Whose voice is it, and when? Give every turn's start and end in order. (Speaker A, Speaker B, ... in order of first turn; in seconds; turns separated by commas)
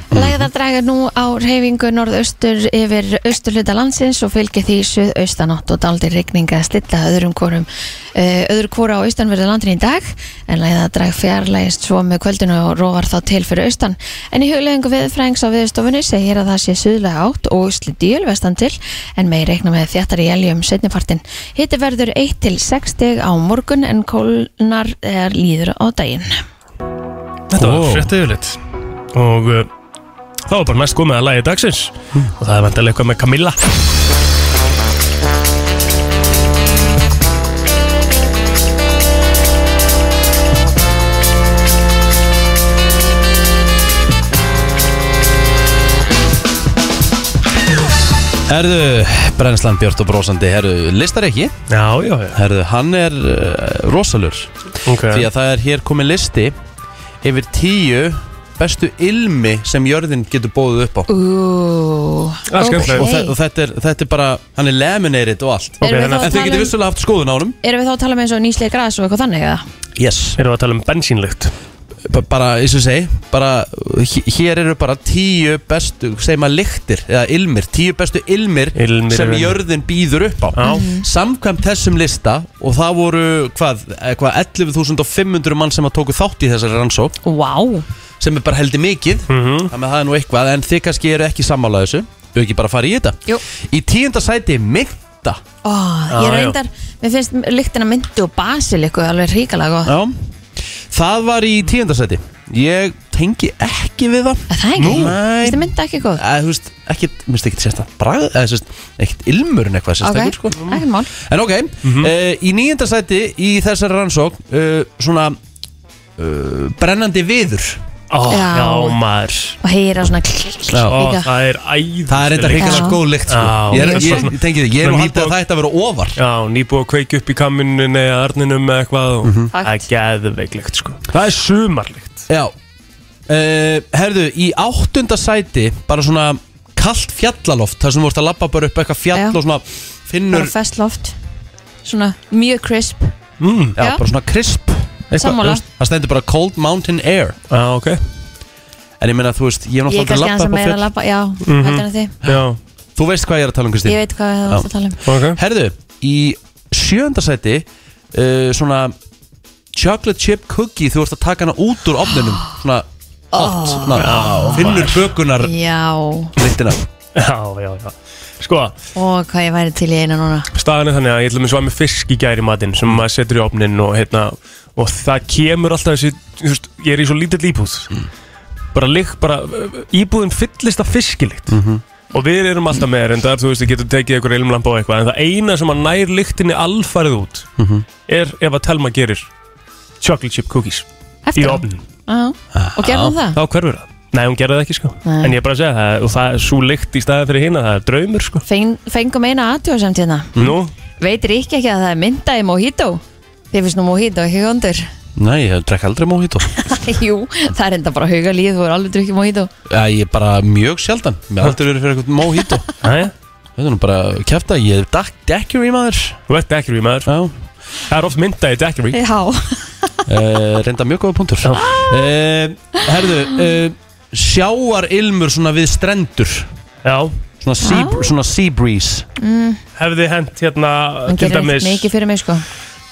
Speaker A: 0.1-0.5, Speaker B: 0.1-26.4, Speaker C: 27.5-28.6, Speaker A: 27.6-28.2, Speaker C: 29.1-29.7, Speaker C: 30.5-33.6, Speaker A: 48.5-51.5, Speaker C: 51.7-52.4, Speaker A: 52.3-54.5, Speaker C: 54.9-55.3, Speaker A: 55.0-56.5, Speaker A: 57.2-61.1, Speaker B: 61.1-63.3, Speaker C: 62.5-63.1, Speaker A: 62.7-67.6, Speaker C: 65.8-66.4, Speaker B: 65.8-66.7, Speaker B: 67.6-69.6, Speaker A: 70.0-70.4, Speaker C: 70.4-71.5, Speaker A: 72.0-87.2, Speaker C: 78.8-79.6, Speaker C: 80.5-80.8, Speaker B: 80.6-81.0, Speaker B: 87.2-87.8, Speaker A: 88.2-93.2, Speaker C: 89.3-89.7, Speaker A: 93.7-95.4, Speaker B: 95.6-99.9, Speaker C: 96.1-96.6, Speaker A: 99.9-100.2, Speaker A: 100.9-115.4, Speaker B: 104.5-106.2, Speaker C: 104.8-105.2, Speaker B: 110.0-111.1, Speaker C: 111.8-112.1, Speaker A: 116.2-117.8, Speaker C: 118.1-119.6, Speaker B: 118.3-119.0, Speaker B: 119.6-121.3, Speaker A: 120.7-121.0, Speaker C: 120.9-125.4, Speaker A: 122.1-126.2, Speaker B: 122.6-123.0, Speaker B: 123.7-124.2, Speaker C: 126.2-132.2, Speaker A: 129.2-129.5, Speaker B: 129.5-129.9, Speaker A: 132.3-132.5, Speaker A: 133.3-140.5, Speaker B: 140.3-141.1, Speaker B: 141.8-143.1, Speaker C: 143.4-143.8, Speaker A: 143.8-147.4, Speaker B: 143.8-144.0, Speaker B: 145.1-145.6, Speaker C: 147.5-148.0, Speaker A: 149.0-150.8, Speaker B: 149.9-152.1, Speaker C: 151.4-152.6, Speaker A: 152.9-158.9, Speaker B: 153.9-155.0, Speaker C: 155.1-155.4, Speaker A: 159.7-165.5, Speaker B: 163.3-164.7, Speaker C: 163.9-165.0, Speaker B: 165.4-166.3, Speaker A: 166.4-166.8, Speaker C: 167.1-168.7, Speaker B: 168.9-170.5, Speaker C: 170.5-177.9, Speaker C: 178.7-181.6, Speaker A: 181.5-181.8, Speaker C: 182.1-187.5, Speaker A: 187.6-187.9, Speaker C: 188.1-189.3, Speaker C: 190.0-191.8, Speaker B: 191.2-193.4, Speaker A: 192.5-193.2, Speaker C: 193.3-198.4, Speaker B: 195.0-195.3, Speaker B: 198.4-200.3, Speaker C: 200.4-200.7, Speaker B: 201.0-204.9, Speaker A: 205.2-206.5, Speaker B: 206.6-209.5, Speaker A: 209.7-212.7, Speaker C: 212.8-213.1, Speaker A: 213.6-216.2, Speaker C: 216.3-217.1, Speaker A: 217.1-217.3, Speaker C: 217.9-219.0, Speaker B: 218.9-220.0, Speaker A: 220.1-226.5, Speaker C: 221.4-221.8, Speaker C: 226.8-227.1, Speaker A: 227.4-229.1, Speaker B: 227.6-228.1, Speaker B: 229.2-229.6, Speaker C: 229.8-231.9, Speaker B: 231.1-232.4